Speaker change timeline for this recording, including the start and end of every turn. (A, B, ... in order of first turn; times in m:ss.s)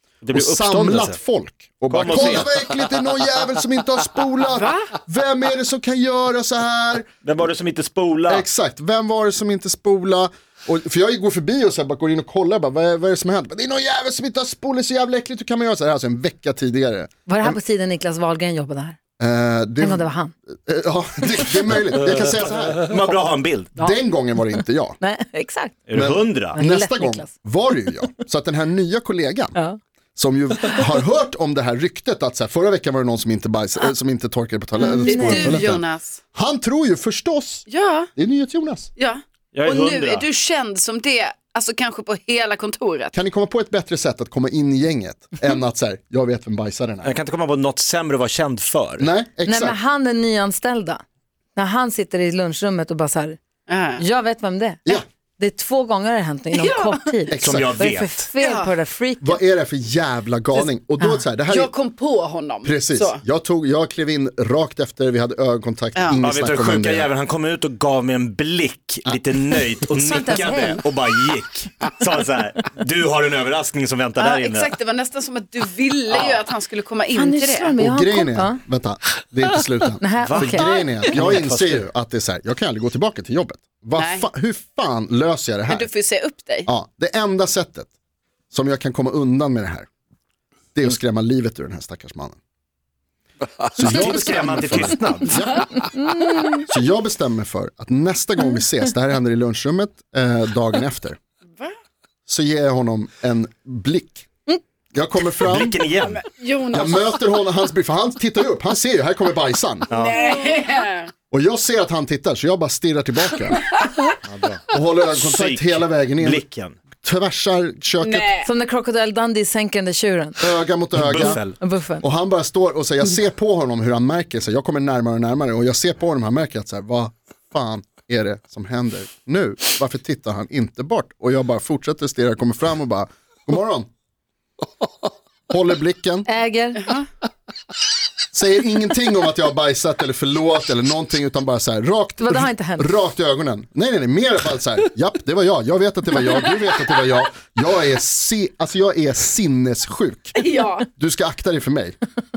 0:00.2-0:01.2 A
0:00.3-0:07.1 B
0:01.9-0:02.8 A
0:04.6-0:04.9 C
0:07.2-0:08.5 A
0:08.3-0:17.6 B
0:17.3-0:19.0 D
0:19.2-0:23.0 B
0:19.8-0:20.3 D
0:22.0-0:23.8 A
0:23.8-0:25.0 B
0:25.0-0:25.8 D
0:25.9-0:26.6 A
0:25.9-0:29.6 B
0:26.5-0:27.3 D
0:30.2-0:35.8 B
0:34.8-0:36.2 C
0:34.8-0:35.7 D
0:36.4-0:38.9 B
0:37.7-0:38.1 C
0:39.0-0:43.1 C
0:39.5-0:40.3 A
0:43.1-0:47.1 B
0:47.0-0:49.1 A
0:49.0-0:49.8 B
0:49.4-0:51.0 D
0:51.6-0:53.4 D
0:53.7-0:54.0 C
0:54.0-0:59.4 D
0:56.5-0:57.1 C
0:57.3-0:57.8 B
0:57.4-0:58.3 A
0:58.4-0:58.7 C
0:59.2-1:01.7 B
1:01.5-1:03.2 C
1:02.6-1:07.1 B
1:06.2-1:14.7 A
1:09.9-1:10.8 D
1:14.2-1:17.7 C
1:16.1-1:16.4 A
1:17.1-1:18.6 D
1:17.8-1:25.9 B
1:20.0-1:20.8 D
1:20.3-1:21.9 A
1:24.0-1:24.2 C
1:25.7-1:26.7 C
1:26.7-1:27.9 B
1:28.5-1:29.9 B
1:30.8-1:32.4 B
1:33.8-1:35.9 B
1:33.8-1:35.4 A
1:34.4-1:36.7 D
1:36.7-1:41.2 B
1:42.3-1:44.3 B
1:44.9-1:45.8 B
1:45.4-1:46.2 A
1:45.9-1:47.3 C
1:46.7-1:49.9 B
1:49.9-1:50.2 A
1:49.9-1:51.1 C
1:51.3-1:53.6 B
1:54.2-1:56.8 A
1:54.7-1:56.4 B
1:57.0-1:58.3 B
1:58.0-1:58.5 C
1:58.4-2:00.4 D
2:00.4-2:13.9 B
2:01.0-2:01.6 A
2:01.2-2:02.0 D
2:15.5-2:16.3 B
2:16.3-2:16.9 D
2:18.3-2:32.0 B
2:22.2-2:22.9 D
2:30.4-2:30.9 C